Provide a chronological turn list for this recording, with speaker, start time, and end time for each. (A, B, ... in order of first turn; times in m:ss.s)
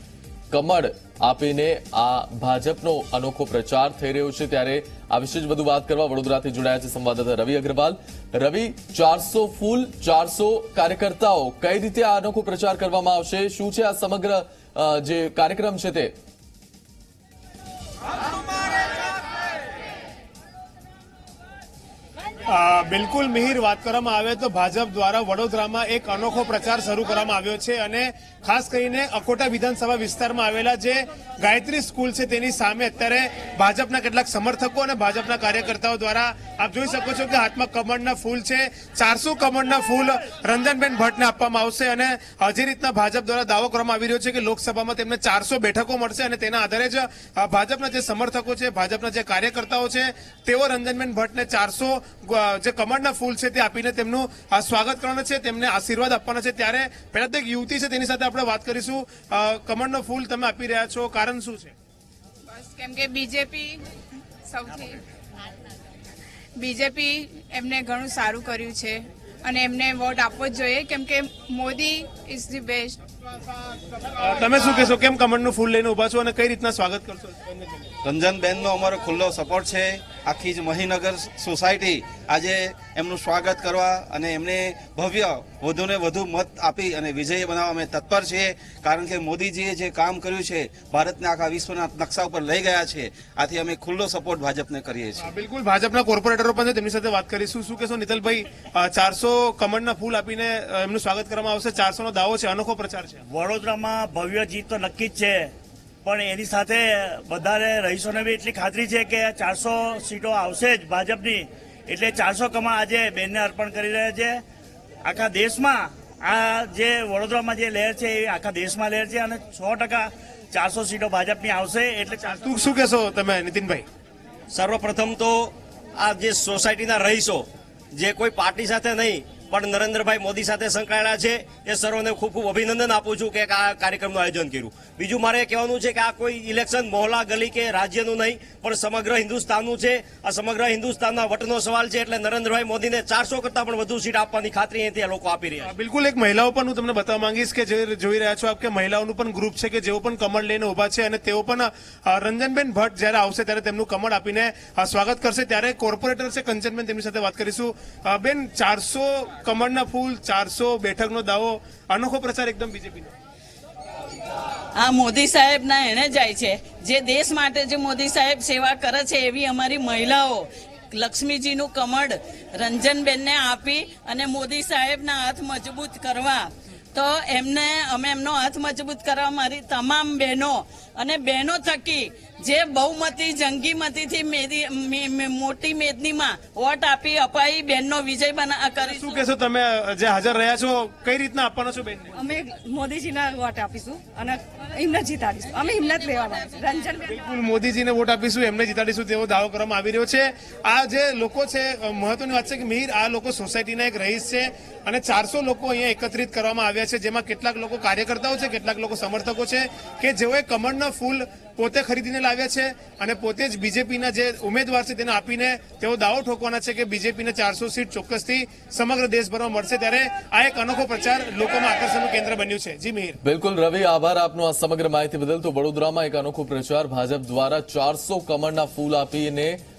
0:00.5-0:16.1 A
0:22.5-1:01.7 B
1:02.5-1:03.8 C
1:04.5-1:05.0 C
1:06.6-1:13.0 C
1:14.2-1:17.9 B
1:18.0-1:35.3 D
1:35.2-1:43.2 B
1:43.3-1:45.5 E
1:46.0-1:54.4 E
1:55.0-2:02.6 E
2:02.4-2:03.9 B
2:04.5-2:05.1 F
2:06.0-2:07.4 F
2:08.0-2:10.0 F
2:10.6-2:12.0 F
2:14.2-2:25.7 F
2:25.6-2:43.1 B
2:44.8-3:09.2 G
3:08.8-3:12.2 B
3:12.2-3:17.1 H
3:17.1-3:43.2 B
3:43.2-3:49.6 A